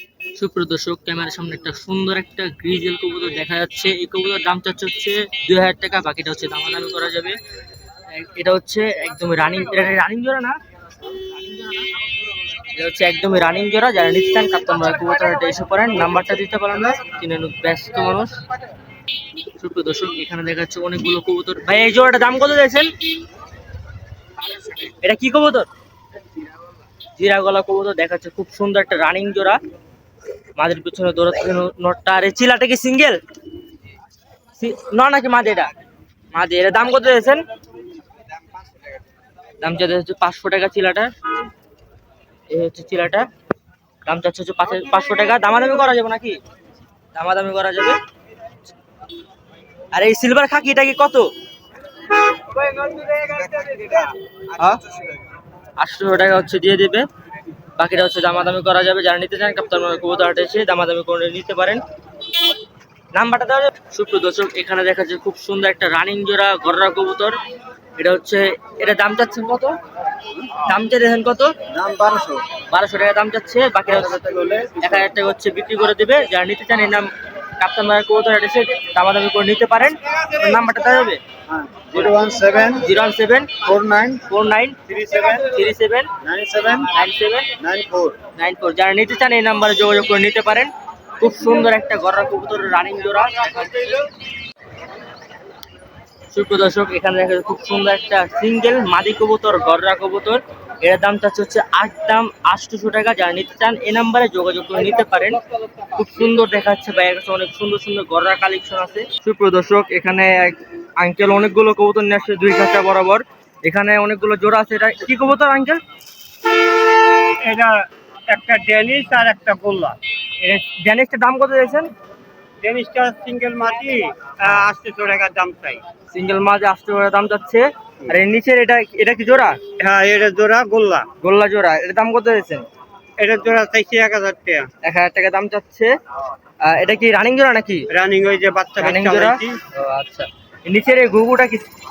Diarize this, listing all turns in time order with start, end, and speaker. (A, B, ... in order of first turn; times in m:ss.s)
0:00.4-0:07.4 A
0:08.1-0:10.6 A
0:11.5-0:11.9 A
0:12.8-0:18.4 A
0:19.6-0:22.9 A
0:24.9-0:25.7 A
0:27.2-0:29.6 A
0:30.6-0:33.2 A
0:34.6-0:35.7 A
0:36.3-0:37.4 A
0:39.6-0:41.1 A
0:42.5-0:43.3 A
0:44.1-0:46.4 A
0:47.2-0:48.0 A
0:49.9-0:51.3 A
0:52.8-0:53.9 A
0:54.6-0:54.8 A
0:55.8-0:57.1 A
0:57.8-1:01.8 A
1:03.1-1:07.4 A
1:08.0-1:09.8 A
1:10.6-1:11.6 A
1:11.7-1:12.4 B
1:12.7-1:14.2 A
1:14.2-1:14.7 B
1:14.8-1:21.2 A
1:21.5-1:22.8 B
1:22.8-1:23.5 A
1:23.7-1:24.2 B
1:24.3-1:24.8 A
1:25.1-1:25.4 B
1:25.4-1:26.1 A
1:26.3-1:26.8 B
1:26.9-1:27.5 A
1:27.6-1:28.2 B
1:28.4-1:34.1 A
1:36.3-1:45.4 A
1:46.0-1:55.8 A
1:57.4-2:00.0 C
2:00.4-2:01.9 A
2:02.6-2:05.8 C
2:06.1-2:09.6 A
2:09.8-2:11.1 C
2:11.2-2:12.6 A
2:13.2-2:14.7 C
2:14.8-2:15.9 A
2:16.6-2:17.9 A
2:17.9-2:19.6 C
2:18.8-2:21.6 A